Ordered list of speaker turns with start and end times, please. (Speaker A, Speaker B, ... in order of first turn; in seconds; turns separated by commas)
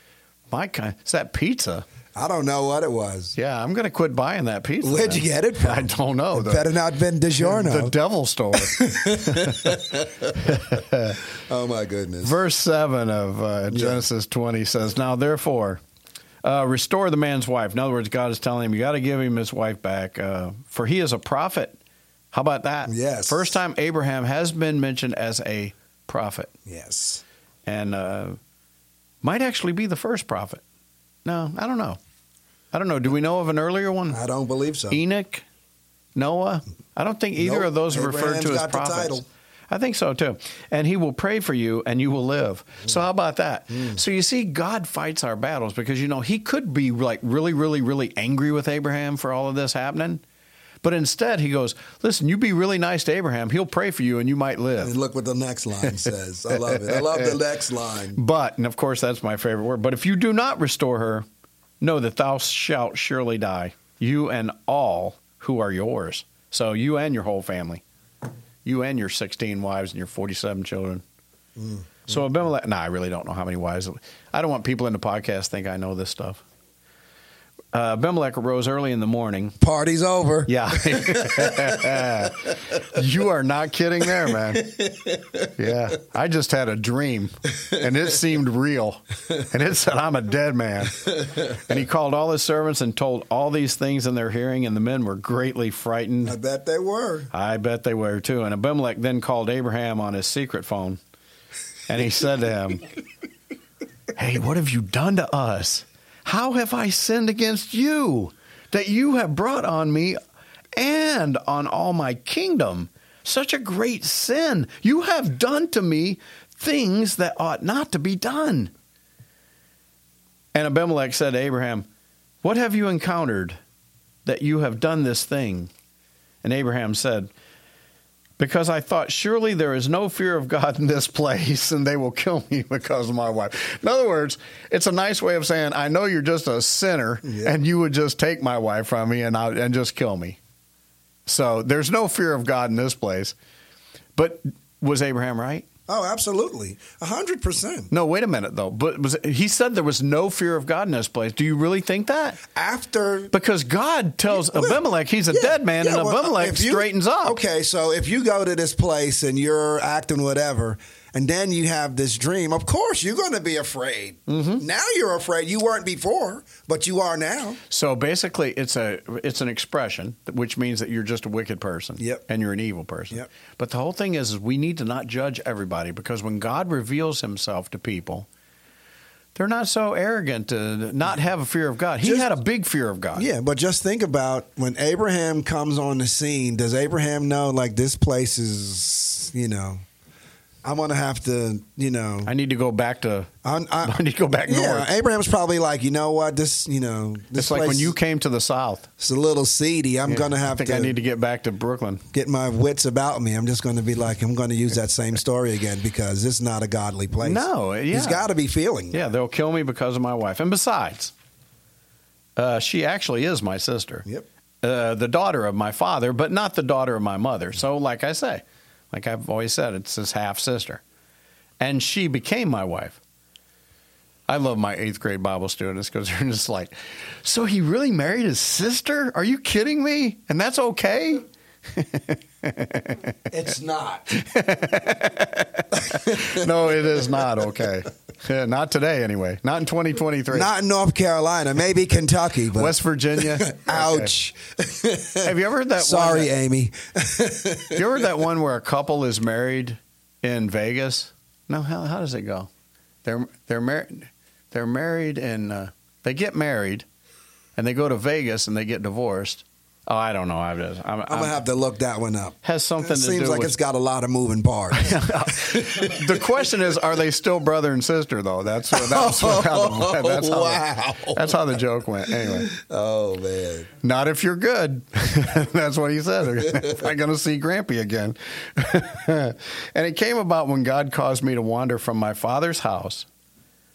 Speaker A: 0.5-1.9, Speaker B: 2.1-3.4, Speaker A: 3.4-6.7, Speaker B: 4.8-7.9, Speaker A: 7.4-11.2, Speaker B: 8.6-10.2, Speaker B: 11.4-12.4, Speaker A: 12.2-15.8, Speaker B: 13.7-14.1, Speaker A: 16.4-21.8, Speaker A: 22.3-26.5, Speaker B: 22.9-23.6, Speaker B: 26.6-27.2, Speaker A: 27.6-28.4, Speaker A: 29.2-30.6, Speaker A: 31.2-32.0, Speaker A: 32.7-34.2, Speaker B: 34.1-35.0, Speaker A: 34.9-35.4, Speaker A: 36.1-39.2, Speaker B: 37.4-39.2, Speaker A: 39.7-50.2, Speaker B: 43.7-44.0, Speaker A: 50.8-54.9, Speaker B: 54.8-58.2, Speaker A: 55.8-57.4, Speaker A: 58.1-61.2, Speaker A: 61.8-67.8, Speaker A: 68.6-71.0, Speaker B: 71.6-72.0, Speaker A: 72.0-76.4, Speaker A: 77.7-79.6, Speaker B: 79.6-82.3, Speaker A: 80.5-84.8, Speaker B: 84.3-85.4, Speaker A: 85.5-96.4, Speaker B: 96.2-97.3, Speaker A: 97.3-101.0, Speaker A: 101.9-102.8, Speaker A: 104.2-110.2, Speaker A: 110.8-118.7, Speaker A: 120.5-121.9, Speaker A: 122.4-123.6, Speaker A: 124.2-125.7, Speaker A: 126.4-127.3, Speaker A: 128.4-140.4, Speaker B: 137.2-137.6, Speaker A: 141.2-143.3, Speaker A: 144.2-145.7, Speaker B: 145.9-147.9, Speaker A: 147.9-152.4, Speaker B: 152.5-153.3, Speaker A: 153.3-157.4, Speaker B: 154.3-167.6, Speaker A: 164.3-164.6, Speaker A: 167.7-178.3, Speaker A: 179.3-183.3, Speaker B: 182.0-182.3, Speaker B: 183.1-189.8, Speaker B: 190.6-192.3, Speaker A: 192.2-193.3, Speaker B: 193.4-197.9, Speaker A: 193.8-194.9, Speaker A: 197.3-198.9, Speaker B: 199.0-200.9, Speaker A: 200.1-202.0, Speaker B: 202.1-209.0, Speaker A: 207.2-208.3, Speaker A: 208.9-211.1, Speaker A: 212.3-214.1, Speaker A: 214.6-220.8, Speaker A: 221.6-223.0, Speaker A: 224.3-233.2, Speaker B: 233.3-234.1, Speaker A: 234.1-240.5, Speaker B: 235.9-236.5, Speaker B: 240.3-248.1, Speaker A: 242.5-244.1, Speaker A: 245.2-246.3, Speaker A: 247.7-252.5, Speaker A: 253.0-256.9, Speaker A: 257.6-261.4, Speaker B: 261.1-266.6, Speaker A: 262.4-263.5, Speaker A: 264.8-272.5, Speaker B: 268.7-273.7, Speaker A: 273.8-283.1, Speaker B: 276.4-276.8